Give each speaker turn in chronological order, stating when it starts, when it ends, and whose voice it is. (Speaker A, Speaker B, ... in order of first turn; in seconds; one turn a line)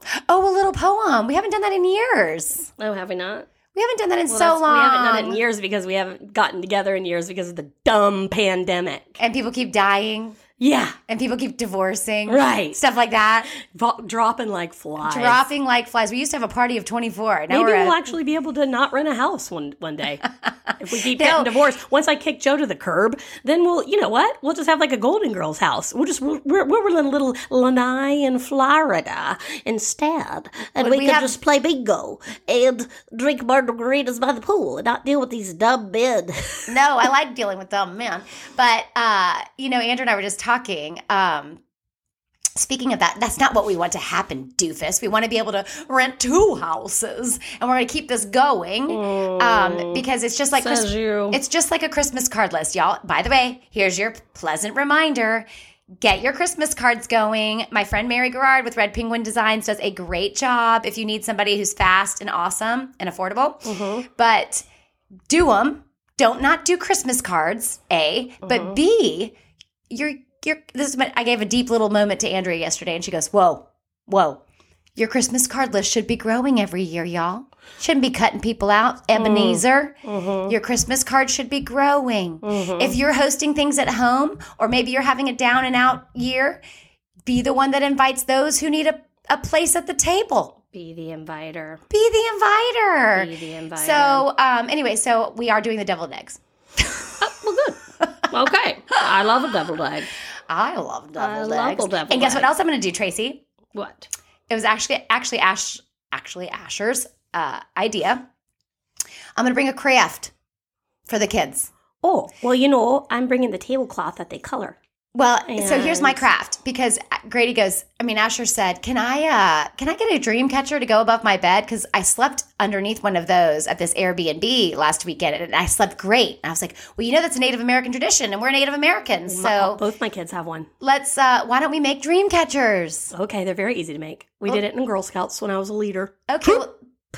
Speaker A: 0.3-2.7
Speaker B: 2.8-3.5
Speaker A: 3.7-5.4
Speaker B: 4.3-9.2
Speaker A: 9.2-10.4
Speaker B: 10.6-11.0
Speaker A: 11.1-13.5
Speaker B: 12.3-12.8
Speaker B: 13.5-15.4
Speaker A: 15.0-18.0
Speaker B: 17.5-20.2
Speaker B: 20.8-36.7
Speaker A: 21.0-21.5
Speaker A: 30.8-31.4
Speaker A: 36.7-41.6
Speaker A: 42.5-55.5
Speaker B: 48.9-50.0
Speaker B: 50.5-51.4
Speaker A: 56.0-64.6
Speaker B: 63.6-64.0
Speaker A: 65.3-69.3
Speaker B: 68.4-68.7
Speaker A: 69.9-74.4
Speaker A: 75.0-79.9
Speaker B: 79.1-80.5
Speaker A: 80.5-86.6
Speaker B: 82.4-83.0
Speaker A: 87.2-90.5
Speaker B: 90.7-91.8
Speaker A: 91.9-96.4
Speaker B: 93.1-94.3
Speaker B: 97.2-100.1
Speaker A: 100.5-103.4
Speaker B: 101.2-102.5
Speaker B: 103.7-104.1
Speaker A: 104.5-108.2
Speaker A: 109.3-110.3
Speaker A: 111.1-111.7
Speaker B: 112.0-114.8
Speaker A: 115.1-129.8
Speaker B: 115.5-116.2
Speaker B: 129.3-130.7
Speaker A: 130.8-133.1
Speaker B: 133.1-136.6
Speaker A: 136.3-136.7